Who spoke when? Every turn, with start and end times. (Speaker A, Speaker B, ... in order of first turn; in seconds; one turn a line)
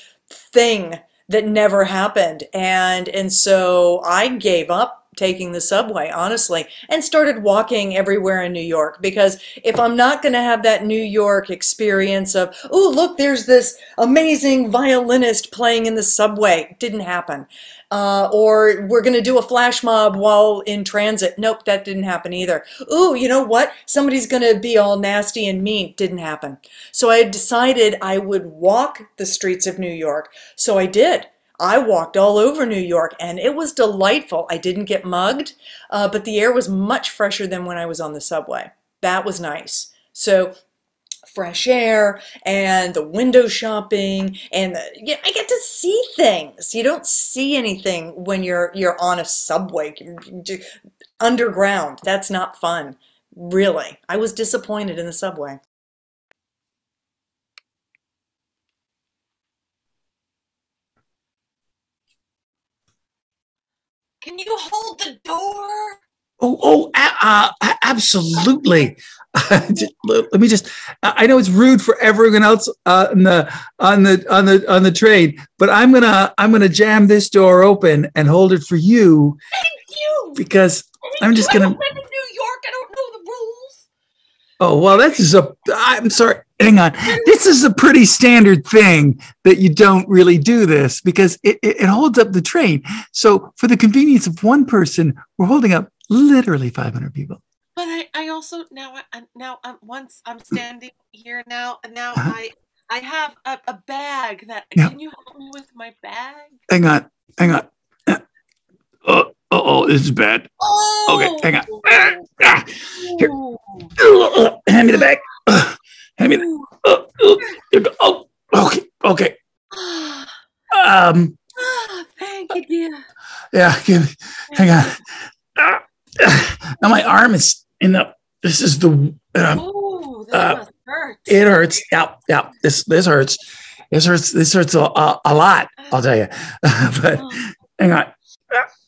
Speaker A: 0.4-40.5
Speaker A: 41.3-50.6
Speaker A: 51.2-55.6
Speaker B: 64.2-66.0
Speaker C: 66.4-79.4
Speaker B: 79.5-80.4
Speaker C: 80.3-81.8
Speaker B: 81.0-83.8
Speaker C: 84.6-97.4
Speaker B: 87.0-87.3
Speaker B: 97.8-106.6
Speaker C: 106.7-108.2
Speaker C: 109.0-110.5
Speaker B: 110.6-112.2
Speaker C: 111.1-113.3
Speaker B: 112.9-113.9
Speaker C: 114.0-119.4
Speaker B: 116.3-116.7
Speaker B: 119.7-120.3
Speaker C: 120.7-121.4
Speaker B: 121.5-123.0
Speaker C: 123.5-125.0
Speaker B: 124.5-124.9
Speaker C: 125.5-129.6
Speaker B: 129.5-131.6
Speaker C: 130.3-130.6
Speaker C: 131.3-133.4
Speaker C: 133.9-138.7
Speaker B: 137.2-137.4